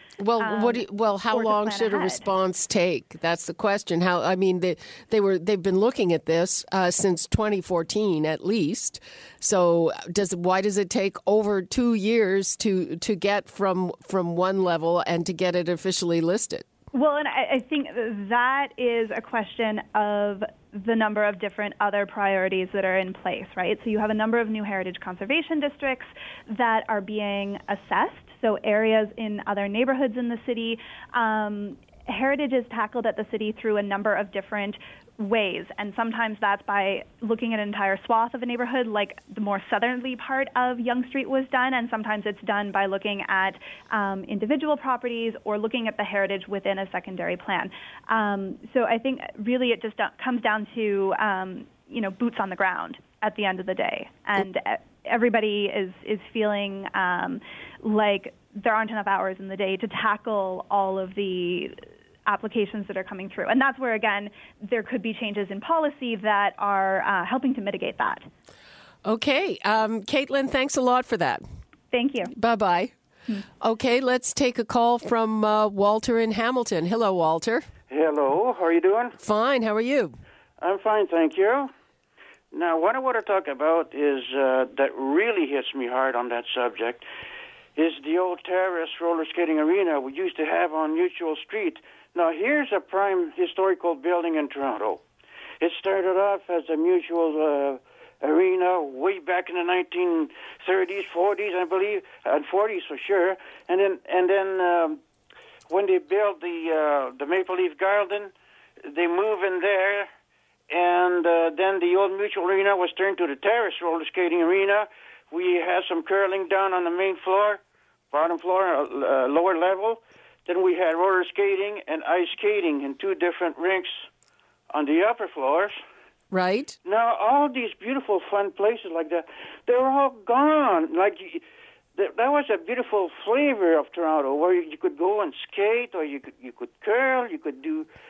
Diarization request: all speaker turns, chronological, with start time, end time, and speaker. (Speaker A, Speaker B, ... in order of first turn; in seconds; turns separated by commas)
Speaker A: 0.2-16.6, Speaker B: 0.4-2.2, Speaker B: 16.9-61.7, Speaker B: 62.2-68.2, Speaker A: 69.0-71.4, Speaker B: 71.9-72.3, Speaker A: 72.3-72.9, Speaker A: 73.6-77.7, Speaker C: 77.9-79.1, Speaker A: 79.2-80.2, Speaker C: 80.6-81.7, Speaker C: 82.5-87.0, Speaker C: 87.8-95.0, Speaker C: 95.6-105.0, Speaker C: 105.7-108.3, Speaker C: 108.8-110.0, Speaker C: 110.7-117.6, Speaker C: 118.1-124.0, Speaker C: 124.7-125.8, Speaker A: 126.3-126.8, Speaker C: 126.8-131.4, Speaker C: 131.9-137.8